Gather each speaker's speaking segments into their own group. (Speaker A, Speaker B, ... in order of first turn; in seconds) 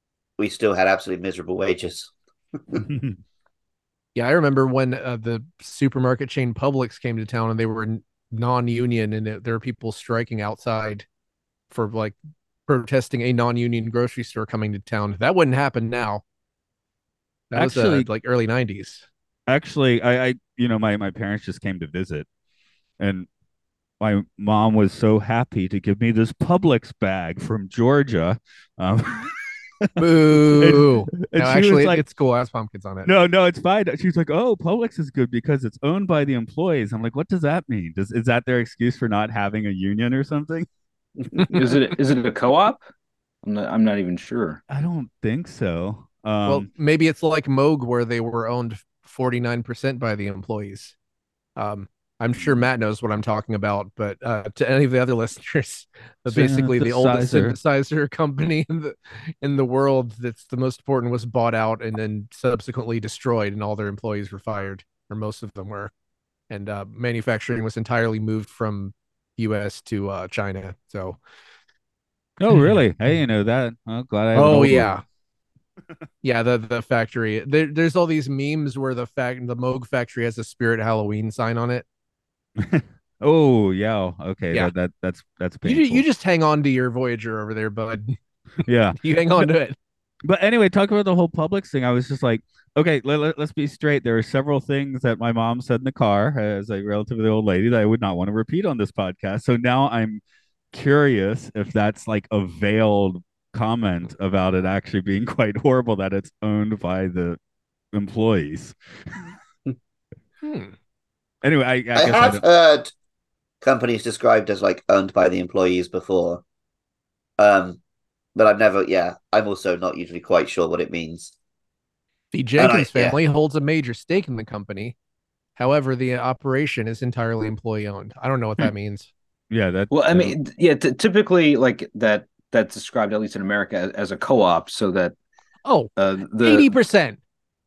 Speaker A: 0.4-2.1, 112.0-112.9, 113.6-116.4, 117.4-117.8, 118.4-121.3, 122.6-123.2
Speaker B: 2.8-3.2, 17.6-18.1, 19.5-22.3, 23.0-23.3, 24.0-32.0, 33.0-40.7, 44.7-46.7, 56.3-57.6, 72.4-74.9, 82.6-86.0, 88.7-89.5, 90.2-107.4, 107.9-109.3, 111.4-112.4, 129.5-130.4
Speaker C: 4.2-11.1, 11.7-16.2, 17.5-19.1, 30.0-33.1, 46.5-51.0, 51.6-65.9, 66.5-71.2, 74.3-75.0, 76.2-81.9, 85.7-88.2, 89.0-89.8, 110.4-110.7, 122.3-125.0, 125.6-129.1, 135.7-135.9, 136.4-137.2
Speaker D: 41.5-42.8, 43.4-44.6, 129.9-135.2, 136.0-136.7